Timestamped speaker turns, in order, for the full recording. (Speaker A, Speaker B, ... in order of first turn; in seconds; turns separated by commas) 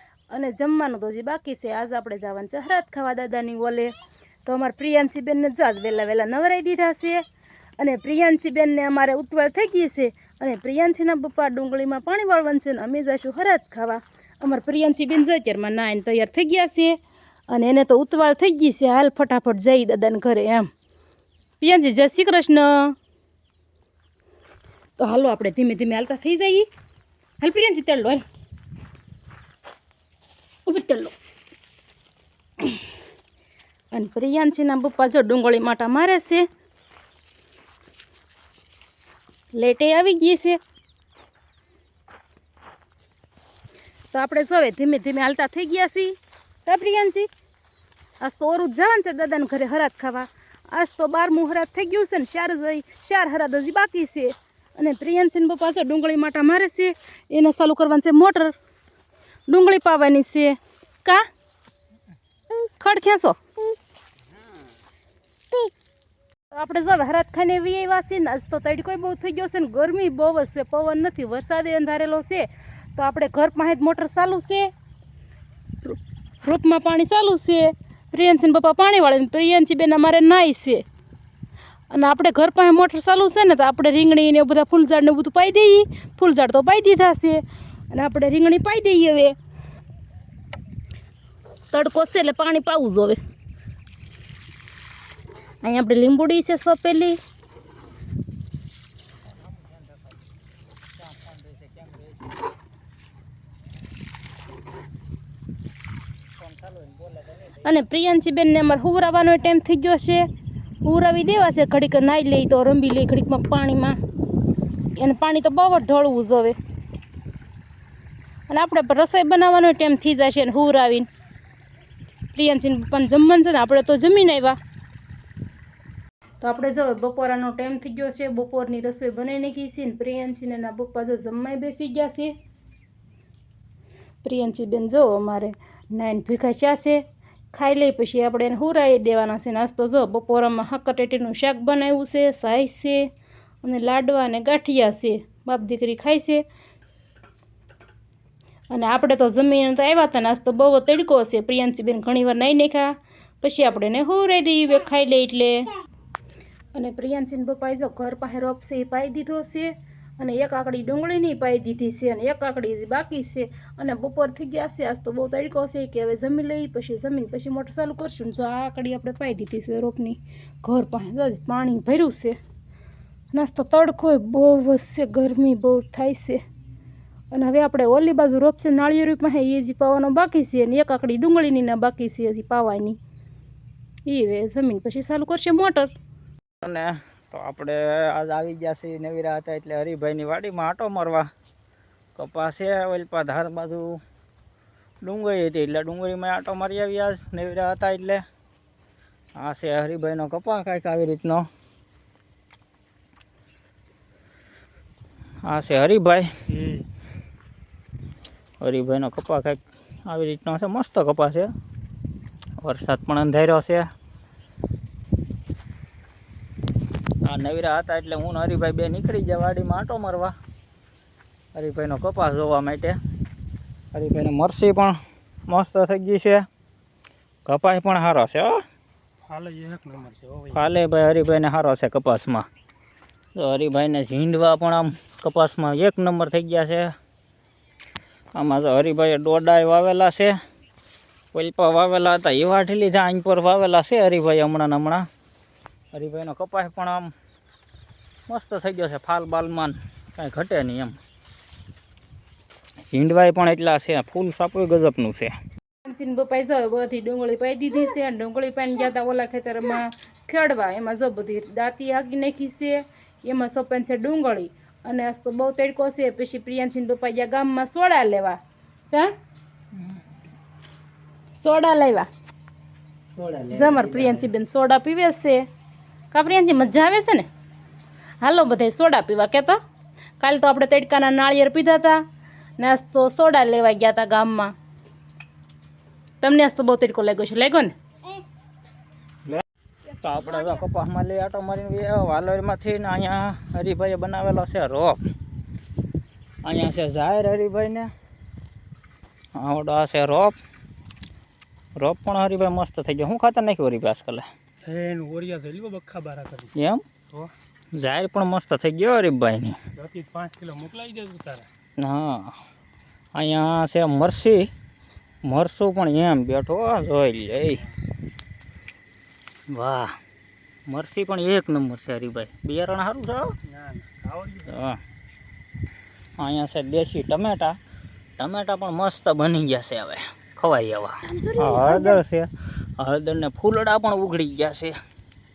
Speaker A: 0.3-3.9, Speaker A: 4.5-7.2, Speaker A: 7.8-16.9, Speaker A: 17.5-20.7, Speaker A: 21.6-22.9, Speaker A: 25.0-26.7, Speaker A: 27.4-28.2, Speaker A: 30.6-31.1, Speaker A: 33.9-36.5, Speaker A: 39.5-40.6, Speaker A: 44.1-47.3, Speaker A: 48.2-58.5, Speaker A: 59.5-61.2, Speaker A: 62.5-63.4, Speaker A: 66.5-74.7, Speaker A: 75.8-80.8, Speaker A: 81.9-89.3, Speaker A: 91.7-93.2, Speaker A: 95.6-97.2, Speaker B: 101.0-102.1, Speaker B: 106.4-107.4, Speaker A: 107.6-110.3, Speaker A: 110.8-114.0, Speaker A: 115.0-116.5, Speaker A: 118.5-121.1, Speaker A: 122.3-124.6, Speaker A: 126.4-132.3, Speaker A: 134.2-143.1, Speaker A: 143.6-146.4, Speaker A: 148.7-155.7, Speaker A: 156.7-172.3, Speaker A: 173.3-176.4, Speaker A: 177.3-183.0, Speaker A: 184.1-185.9, Speaker B: 186.6-191.3, Speaker B: 192.2-194.0, Speaker B: 195.0-198.2, Speaker B: 199.4-201.5, Speaker B: 205.4-206.3, Speaker B: 208.6-211.5, Speaker B: 212.6-213.8, Speaker B: 217.2-220.3, Speaker B: 221.5-223.0, Speaker B: 223.9-225.0, Speaker B: 225.5-226.4, Speaker B: 227.4-228.6, Speaker C: 229.2-230.7, Speaker B: 230.5-232.4, Speaker B: 233.3-236.9, Speaker B: 238.3-240.3, Speaker B: 241.3-245.0, Speaker B: 245.9-247.1, Speaker B: 248.3-251.0, Speaker B: 252.9-255.3, Speaker A: 255.8-268.4, Speaker A: 271.3-272.1, Speaker B: 273.2-274.2, Speaker A: 273.5-275.4, Speaker A: 276.1-277.3, Speaker A: 278.2-279.6, Speaker A: 280.2-282.0, Speaker A: 282.6-284.5, Speaker A: 286.2-287.7, Speaker B: 289.2-295.0, Speaker B: 296.4-297.9, Speaker B: 299.4-300.4, Speaker B: 301.8-304.2, Speaker C: 304.6-306.5, Speaker B: 306.5-306.8, Speaker B: 307.8-309.6, Speaker C: 309.8-311.5, Speaker B: 311.8-312.3, Speaker B: 313.1-314.5, Speaker B: 315.2-317.6, Speaker B: 319.5-319.9, Speaker B: 320.7-323.3, Speaker C: 323.5-324.5, Speaker B: 324.5-324.8, Speaker B: 326.2-327.6, Speaker B: 328.2-334.7, Speaker A: 331.1-332.0